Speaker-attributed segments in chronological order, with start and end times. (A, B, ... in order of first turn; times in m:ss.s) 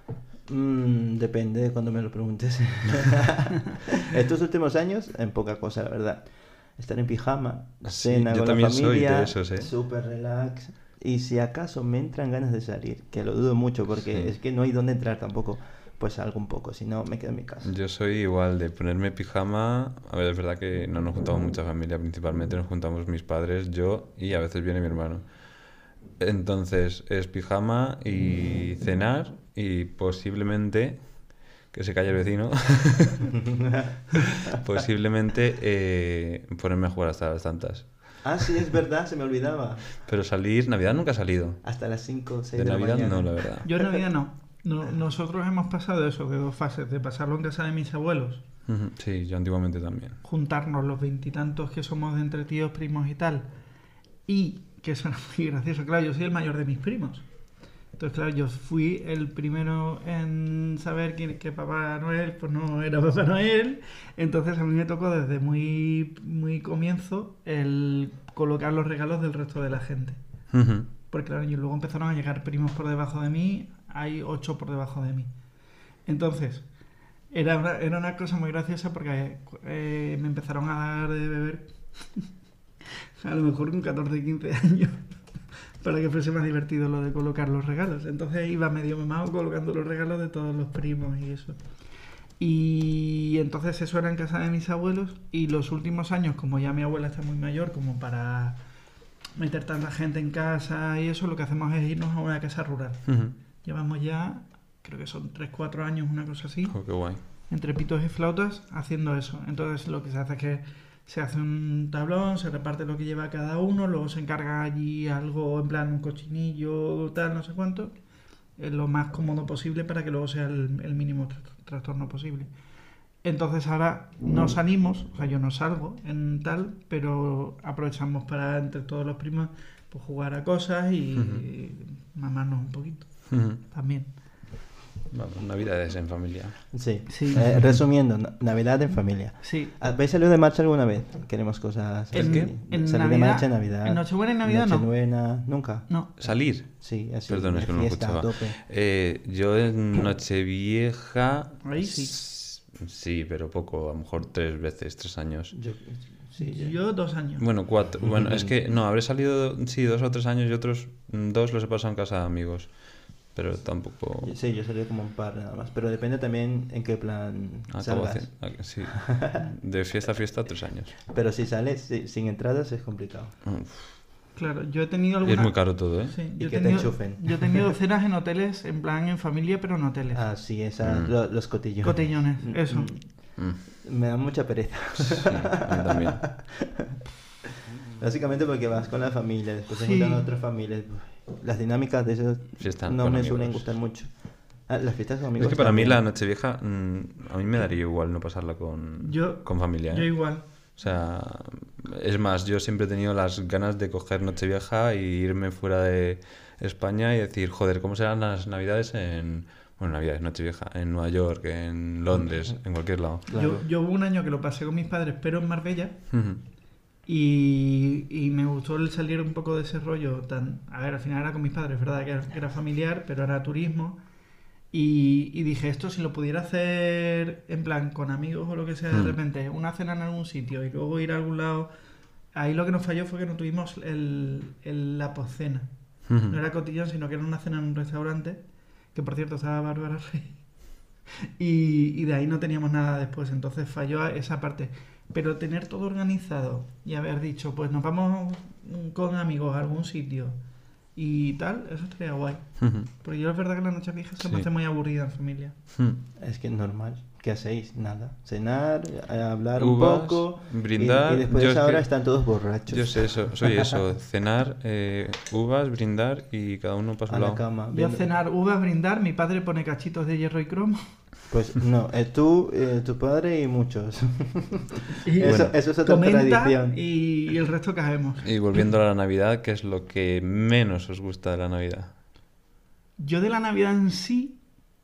0:00.5-0:17.7 A
0:07.8-0:09.7 B
0:17.6-0:33.3 B
0:33.4-0:34.6 A
0:34.2-0:38.5 B
0:38.2-0:39.9 A
0:40.0-0:41.6 B
0:41.6-0:43.4 A
0:42.6-0:43.7 B
0:43.6-0:48.4 C
0:48.7-0:50.2 B
0:50.2-0:53.5 C
0:54.3-0:57.2 C
0:58.0-1:10.2 C
1:10.5-1:10.9 B
1:11.1-1:15.3 C
1:16.0-1:16.7 C
1:17.3-1:22.3 C
1:23.2-1:25.0 C
1:25.8-1:31.6 C
1:32.4-1:38.6 C
1:39.4-1:57.9 C
1:43.1-1:43.4 B
1:46.7-1:47.2 B
1:58.6-2:02.5 C
2:03.2-2:14.1 C
2:11.2-2:11.4 B
2:13.3-2:13.6 B
2:15.1-2:16.7 B
2:16.7-2:28.6 A
2:17.1-2:17.5 C
2:19.4-2:19.8 C
2:22.1-2:22.5 B
2:22.1-2:24.9 C
2:26.2-2:35.5 B
2:31.6-2:32.1 C
2:35.5-2:36.8 A
2:36.4-2:37.4 C
2:37.4-2:44.3 B
2:38.0-2:38.5 A
2:44.2-2:49.4 A
2:47.7-2:50.9 B
2:51.1-2:53.3 A
2:53.5-2:53.9 B
2:54.4-3:00.2 C
2:55.2-2:56.2 B
2:56.4-2:57.6 A
3:00.1-3:07.0 A
3:00.8-3:01.1 B
3:01.8-3:02.9 C
3:05.0-3:06.2 B
3:07.5-3:14.1 A
3:09.7-3:10.3 C
3:12.6-3:13.7 B
3:14.7-3:16.0 A
3:15.4-3:33.3 B
3:19.0-3:20.4 C
3:33.2-3:33.6 A
3:33.3-3:36.1 C
3:36.1-3:36.4 B
3:37.1-3:44.0 C
3:44.7-3:51.7 C
3:48.9-3:49.2 B
3:52.3-3:58.4 C
3:56.1-3:56.4 B
3:58.9-4:00.4 C
4:01.4-4:10.4 C
4:11.0-4:15.6 C
4:12.6-4:12.9 B
4:15.8-4:16.0 B
4:16.2-4:23.7 A
4:19.6-4:21.9 B
4:22.7-4:27.4 B
4:27.1-4:28.0 A
4:27.7-4:30.8 C
4:31.3-4:36.8 A
4:35.0-4:38.3 C
4:35.2-4:35.5 B
4:38.2-4:41.9 B
4:43.0-4:44.4 C